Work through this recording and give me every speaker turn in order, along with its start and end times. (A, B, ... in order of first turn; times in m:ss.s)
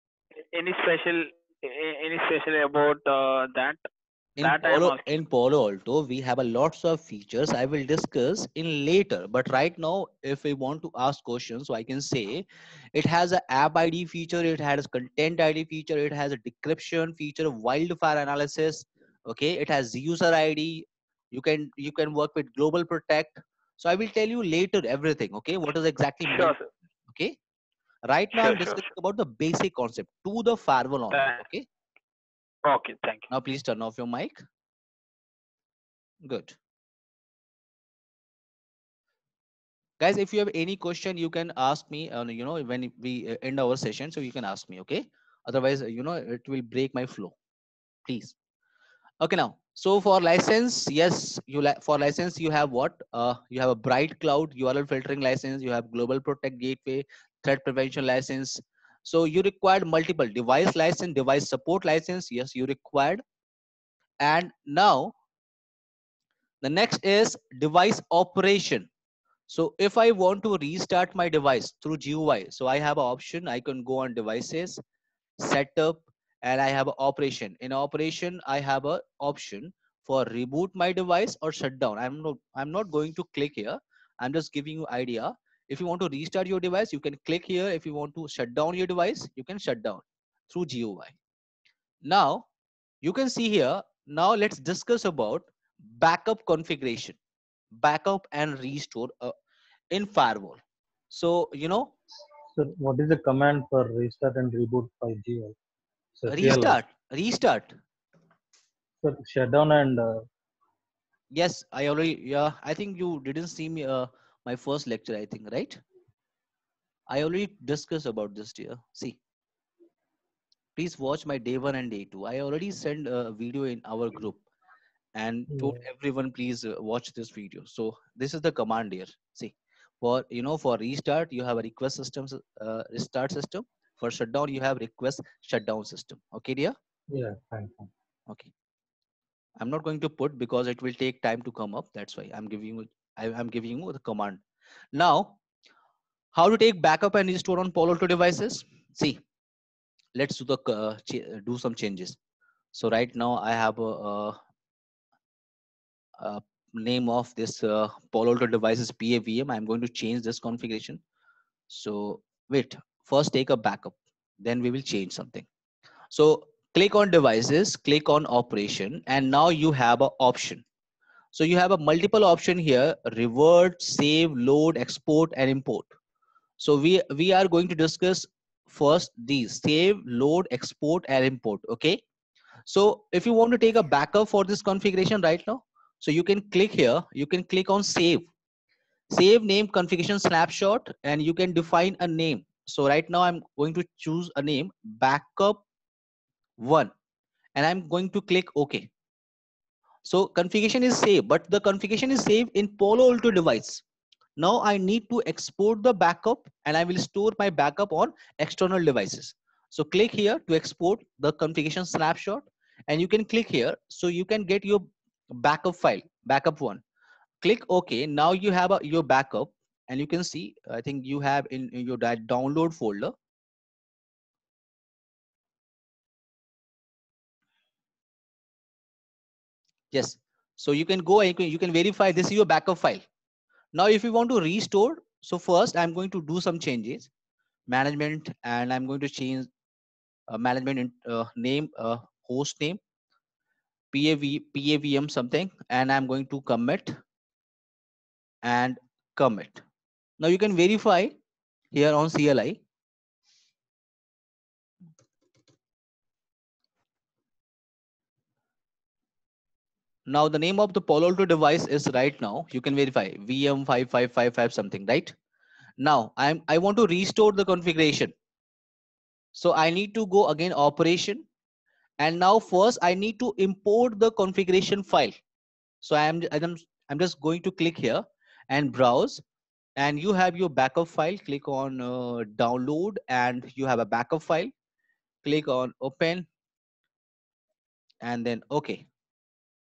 0:00.5-0:03.8 A
0:04.4-0:26.6 B
0:04.4-0:05.2 A
0:26.3-0:26.7 A
0:27.1-0:27.4 B
0:28.1-0:31.7 B
0:28.3-0:28.8 A
0:31.1-0:31.4 A
0:32.7-0:33.3 A
0:33.3-0:34.4 B
0:36.2-0:36.6 B
0:40.0-0:47.3 B
0:48.1-0:48.4 B
0:49.2-1:03.2 B
1:04.2-1:05.1 B
1:06.6-1:08.9 B
1:09.5-1:14.8 B
1:15.4-1:31.2 B
1:32.0-1:32.4 B
1:33.0-1:37.2 B
1:37.7-1:39.3 B
1:39.9-1:40.6 B
1:41.1-1:42.0 B
1:42.5-1:45.6 C
1:46.2-1:46.8 C
1:46.3-1:47.8 B
1:49.0-1:50.2 C
1:51.3-1:55.8 B
1:57.1-1:59.2 B
2:00.8-2:04.4 B
2:05.2-2:16.8 B
2:17.1-2:17.9 C
2:19.6-2:24.4 B
2:25.0-2:25.4 B
2:26.4-2:29.2 B
2:30.2-2:32.2 B
2:32.7-2:34.4 B
2:36.2-2:41.0 B
2:41.7-2:45.5 B
2:46.1-2:50.6 B
2:51.3-2:55.9 B
2:56.6-3:02.0 B
3:02.7-3:08.3 B
3:09.1-3:15.6 B
3:16.6-3:16.9 B
3:17.6-3:18.9 B
3:20.1-3:23.8 B
3:24.4-3:36.8 B
3:37.4-3:43.1 B
3:49.9-3:53.0 B
3:53.7-3:57.1 B
3:57.7-3:59.5 B
4:00.3-4:02.8 B
4:03.9-4:07.0 B
4:08.4-4:09.6 B
4:10.2-4:11.2 B
4:11.7-4:12.6 B
4:20.1-4:25.2 B
4:25.8-4:28.1 B
4:29.4-4:31.2 B
4:32.0-4:35.2 B
4:35.8-4:39.2 B
4:39.8-4:44.5 B
4:45.2-4:46.3 B
4:48.0-4:48.8 B